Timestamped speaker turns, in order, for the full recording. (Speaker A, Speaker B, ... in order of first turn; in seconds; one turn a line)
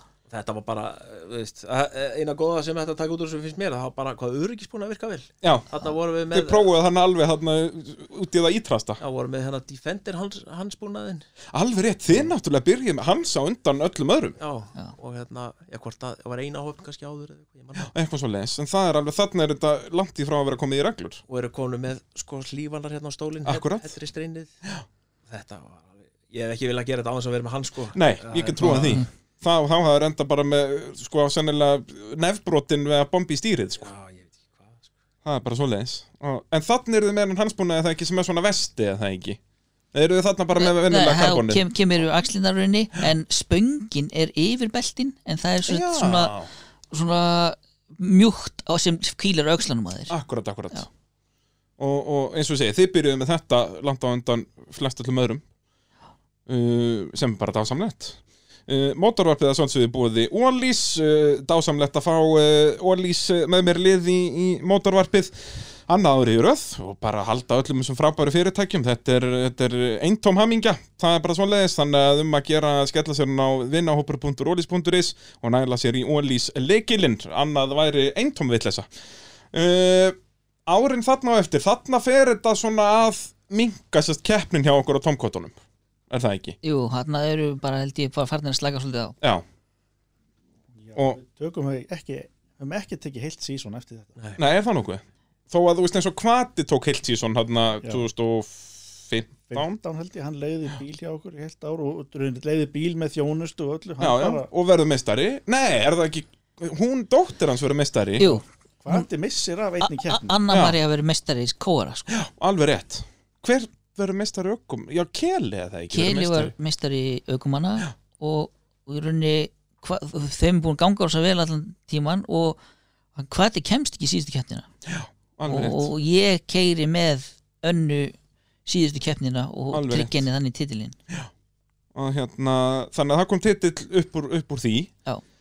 Speaker A: 0.3-6.7
Speaker B: 5.4-5.7
Speaker B: 6.3-9.0
Speaker A: 9.0-11.2
Speaker B: 11.5-14.4
Speaker A: 14.4-17.9
Speaker B: 17.9-21.2
Speaker A: 21.3-24.5
Speaker B: 23.4-23.9
Speaker A: 25.3-29.0
Speaker B: 27.9-33.9
Speaker C: 28.6-29.1
Speaker A: 33.8-34.9
Speaker B: 35.2-39.4
Speaker B: 39.9-41.6
Speaker C: 40.5-46.3
Speaker B: 45.6-46.5
Speaker C: 46.9-50.1
Speaker B: 50.1-50.8
Speaker B: 51.8-55.4
Speaker B: 56.5-78.9
Speaker B: 79.5-85.5
Speaker B: 86.1-86.5
Speaker C: 86.6-89.2
Speaker D: 90.8-94.1
Speaker B: 94.4-99.8
Speaker D: 99.5-104.5
Speaker B: 104.0-108.4
Speaker C: 108.2-109.1
Speaker D: 108.8-110.4
Speaker C: 109.8-112.1
Speaker B: 110.5-110.8
Speaker B: 112.1-116.5
Speaker C: 115.9-122.6
Speaker C: 123.2-124.7
Speaker B: 124.8-125.9
Speaker C: 125.5-131.0
Speaker B: 129.7-130.2
Speaker B: 131.9-134.9